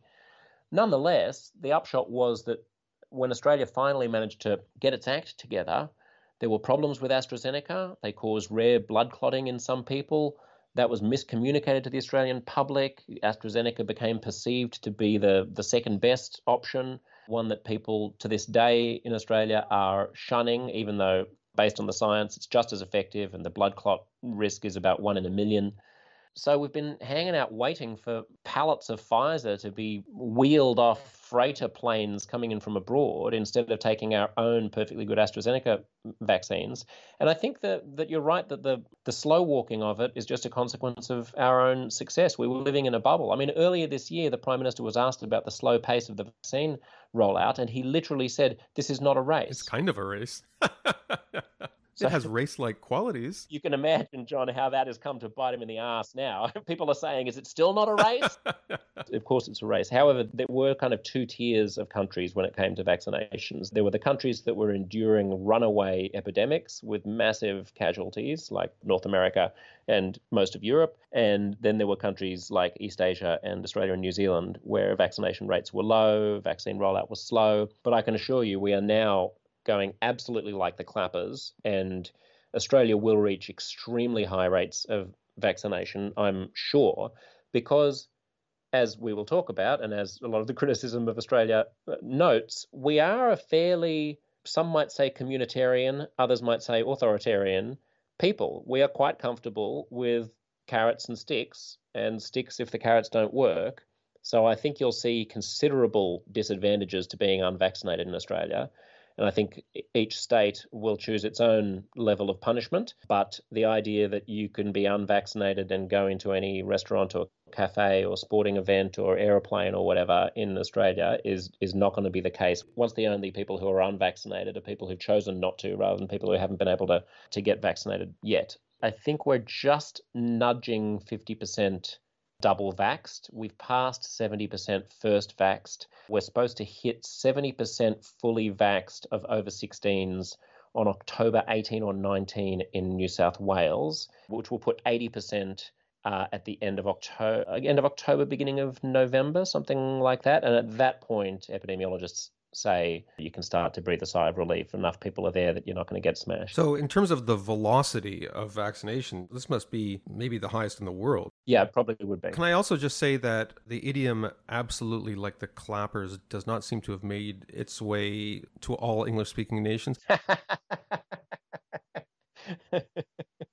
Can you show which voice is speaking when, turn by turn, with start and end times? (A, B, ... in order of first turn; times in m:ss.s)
0:00.7-0:25.8 A
0:26.3-0:49.7 A
0:49.5-0:53.5 B
0:52.0-0:52.3 A
0:53.5-0:58.4 A
0:58.2-0:58.8 B
0:59.0-1:28.1 A
1:28.7-2:36.6 A
2:36.5-2:41.3 B
2:41.5-2:42.4 A
2:42.3-2:50.0 B
2:50.1-2:51.0 A
2:52.5-2:53.2 A